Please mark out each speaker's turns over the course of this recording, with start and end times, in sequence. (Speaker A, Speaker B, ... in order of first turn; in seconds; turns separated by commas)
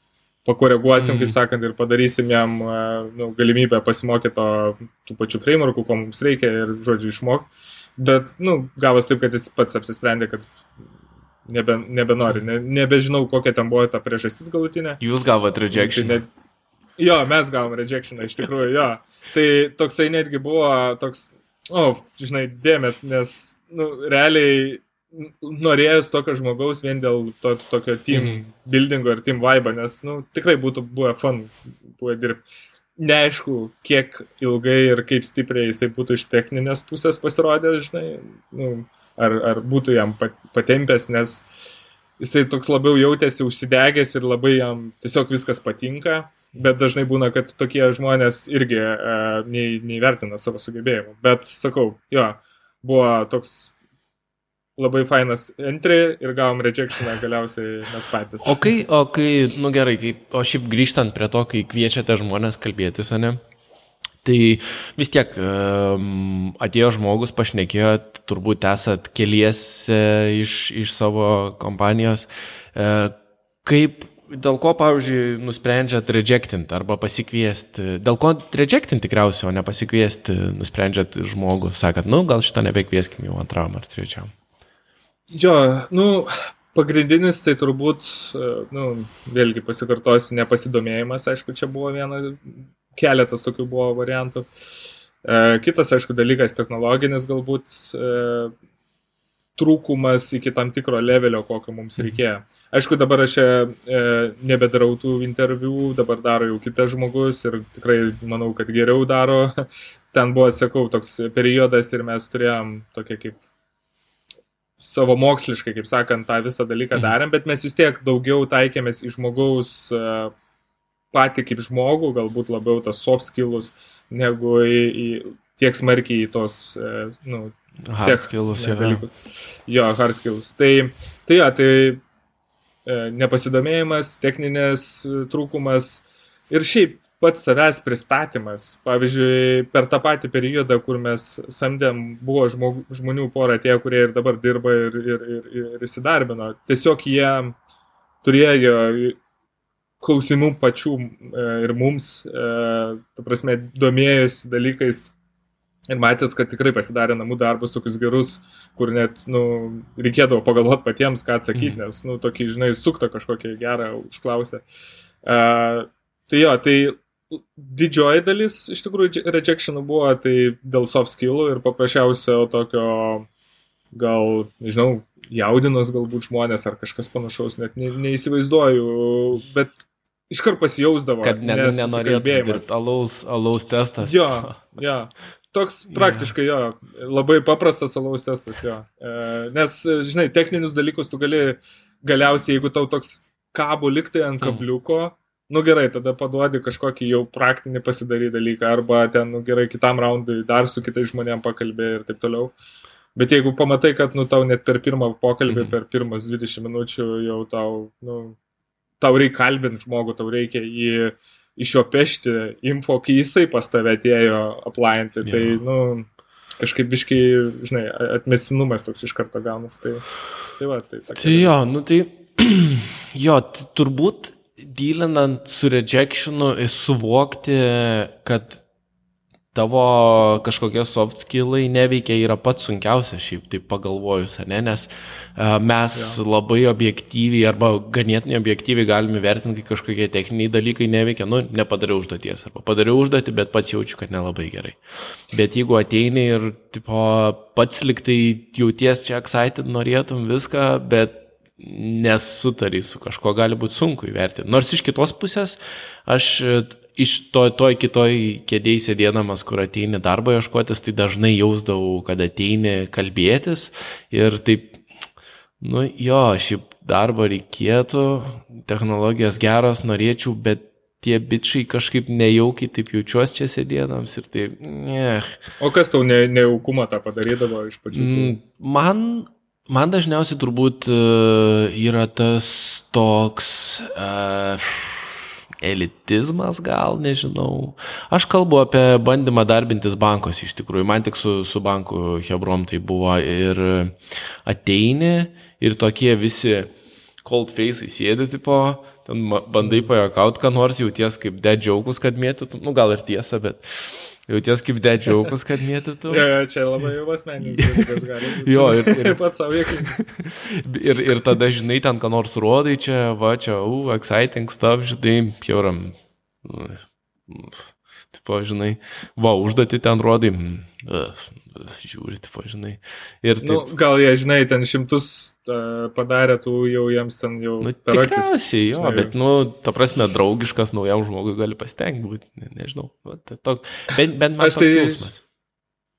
Speaker A: 0.5-10.5, Speaker B: 1.0-1.4, Speaker A: 11.5-15.0, Speaker B: 15.0-16.2, Speaker A: 15.7-16.3, Speaker A: 17.0-32.4, Speaker B: 28.1-28.4, Speaker A: 33.0-41.5, Speaker A: 42.2-53.7, Speaker A: 54.8-58.6, Speaker B: 58.4-63.4, Speaker B: 64.2-84.3, Speaker A: 85.3-94.5, Speaker A: 95.2-98.5, Speaker A: 99.6-113.4, Speaker A: 114.8-120.3, Speaker A: 121.1-129.1, Speaker B: 127.9-129.0, Speaker A: 129.7-132.0, Speaker A: 132.8-147.6, Speaker A: 148.2-149.2, Speaker A: 150.0-155.2, Speaker A: 155.9-164.6, Speaker A: 165.2-173.3, Speaker A: 173.9-182.7, Speaker B: 181.2-184.8, Speaker A: 184.0-202.5, Speaker B: 185.9-186.3, Speaker A: 203.2-208.4, Speaker B: 205.5-205.8, Speaker A: 209.0-220.1, Speaker B: 215.2-215.6, Speaker A: 220.6-221.5, Speaker B: 221.2-228.6, Speaker B: 229.5-244.8, Speaker A: 235.9-236.2, Speaker B: 245.3-264.8, Speaker B: 265.6-275.4, Speaker A: 275.6-278.4, Speaker B: 277.9-296.7, Speaker B: 297.2-306.3, Speaker A: 299.6-299.9, Speaker A: 306.1-310.0, Speaker B: 307.5-323.7, Speaker A: 323.4-329.1, Speaker B: 327.6-335.2, Speaker A: 334.4-335.1